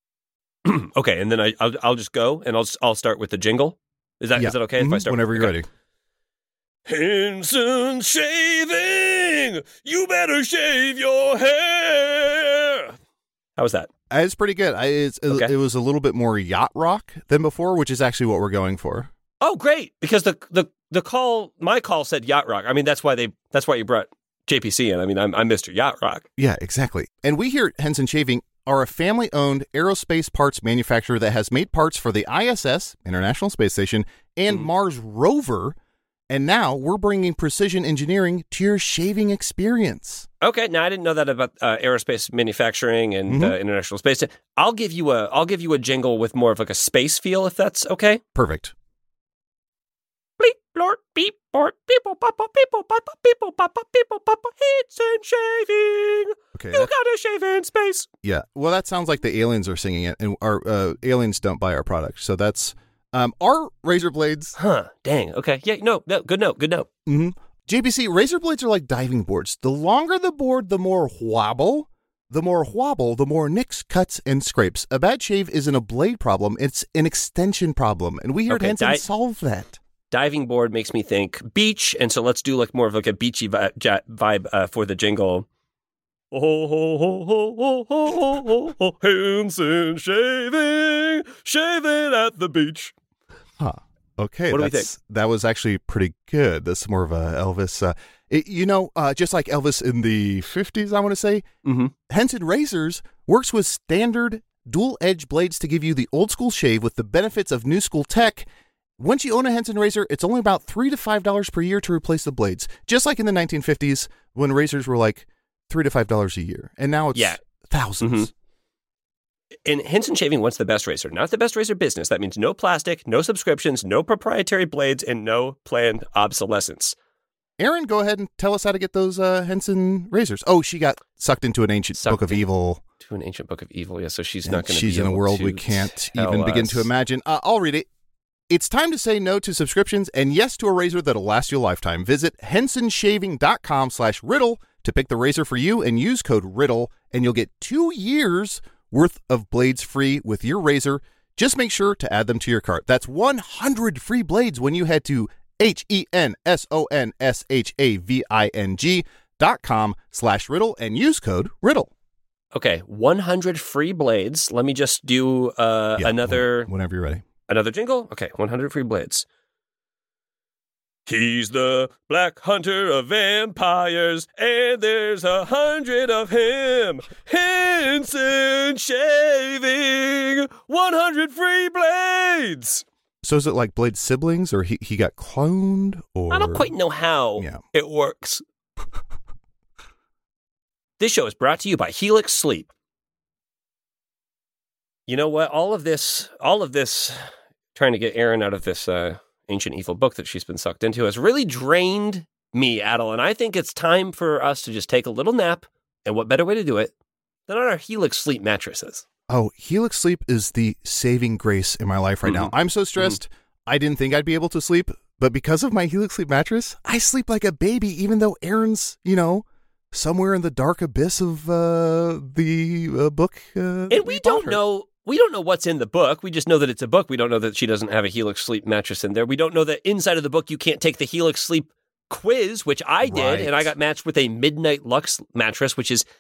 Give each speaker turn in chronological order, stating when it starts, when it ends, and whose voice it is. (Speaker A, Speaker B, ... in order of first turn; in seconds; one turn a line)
Speaker A: 0.6-5.6
Speaker B: 4.4-5.7
Speaker A: 6.9-12.9
Speaker A: 13.6-13.9
Speaker B: 14.1-19.1
Speaker A: 19.4-26.2
Speaker B: 26.4-35.8
Speaker B: 36.3-40.3
Speaker A: 40.4-48.2
Speaker B: 43.3-43.6
Speaker B: 48.4-48.7
Speaker A: 50.4-58.1
Speaker B: 56.5-56.9
Speaker B: 58.2-64.6
Speaker A: 64.6-66.9
Speaker B: 67.1-79.8
Speaker A: 78.5-79.0
Speaker A: 80.1-85.5
Speaker A: 86.3-92.9
Speaker B: 93.6-101.5
Speaker A: 94.5-94.9
Speaker A: 101.6-101.9
Speaker B: 102.1-108.5
Speaker B: 109.0-118.3
Speaker A: 117.1-117.4
Speaker A: 118.0-118.3
Speaker A: 119.6-127.0
Speaker B: 127.6-132.8
Speaker A: 132.0-132.4
Speaker A: 133.0-136.9
Speaker B: 134.4-137.9
Speaker B: 138.5-161.9
Speaker A: 162.5-166.7
Speaker B: 166.0-167.2
Speaker A: 167.5-169.2
Speaker A: 171.1-182.8
Speaker B: 183.2-186.7
Speaker A: 186.3-188.4
Speaker A: 191.0-192.7
Speaker A: 195.1-197.2
Speaker A: 197.7-206.9
Speaker A: 207.5-209.1
Speaker B: 209.3-224.6
Speaker A: 212.2-213.2
Speaker A: 223.9-236.0
Speaker B: 233.0-233.7